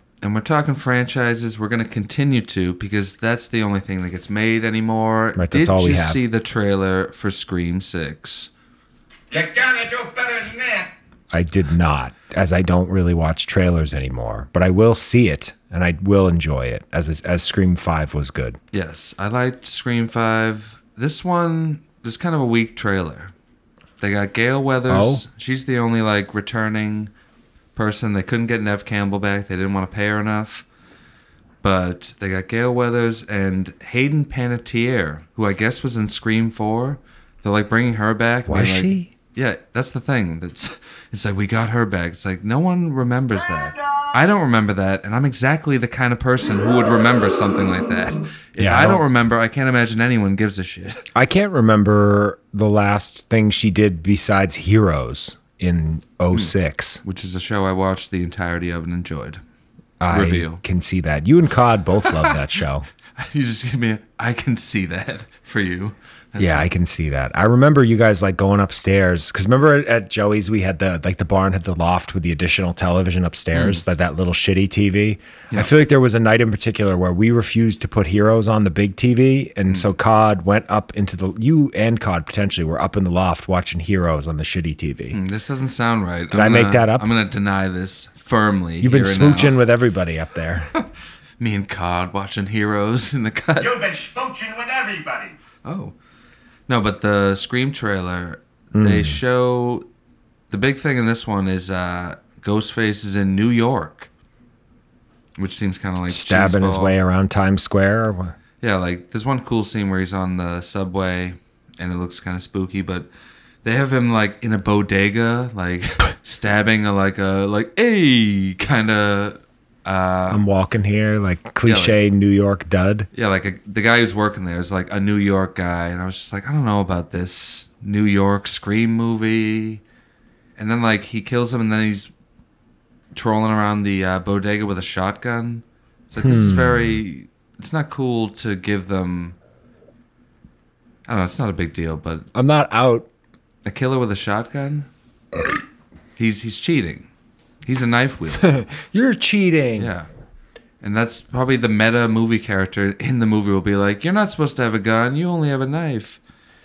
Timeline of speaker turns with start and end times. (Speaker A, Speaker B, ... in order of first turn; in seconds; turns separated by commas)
Speaker A: 0.2-8.5, Speaker B: 5.3-6.2, Speaker C: 9.3-10.9, Speaker B: 11.3-18.6, Speaker A: 18.7-23.3, Speaker A: 24.0-27.1, Speaker B: 24.9-25.2, Speaker A: 27.7-30.6, Speaker A: 31.6-51.0, Speaker B: 38.5-39.1, Speaker B: 48.6-49.0, Speaker B: 51.1-57.0, Speaker A: 57.0-59.4, Speaker B: 60.0-62.9, Speaker A: 60.1-60.6, Speaker A: 62.1-62.4, Speaker A: 63.2-66.7, Speaker B: 66.4-85.2, Speaker A: 73.5-73.8, Speaker A: 85.1-89.6, Speaker B: 86.3-87.1, Speaker B: 88.8-90.7, Speaker A: 91.4-93.8, Speaker C: 93.6-95.3, Speaker A: 95.6-95.9, Speaker A: 96.7-99.8, Speaker B: 98.7-99.2, Speaker A: 100.5-104.1, Speaker A: 105.4-107.0, Speaker B: 106.0-108.3, Speaker A: 108.6-113.1, Speaker A: 113.6-120.4, Speaker B: 120.3-123.1, Speaker A: 121.6-122.0, Speaker A: 123.1-129.8, Speaker A: 130.6-132.1, Speaker A: 133.1-139.3, Speaker B: 136.2-137.0, Speaker A: 141.1-142.3, Speaker B: 142.3-143.1, Speaker A: 143.6-144.9, Speaker A: 146.2-147.1, Speaker A: 147.6-148.5, Speaker B: 148.4-149.9, Speaker A: 149.8-150.1, Speaker A: 150.8-156.2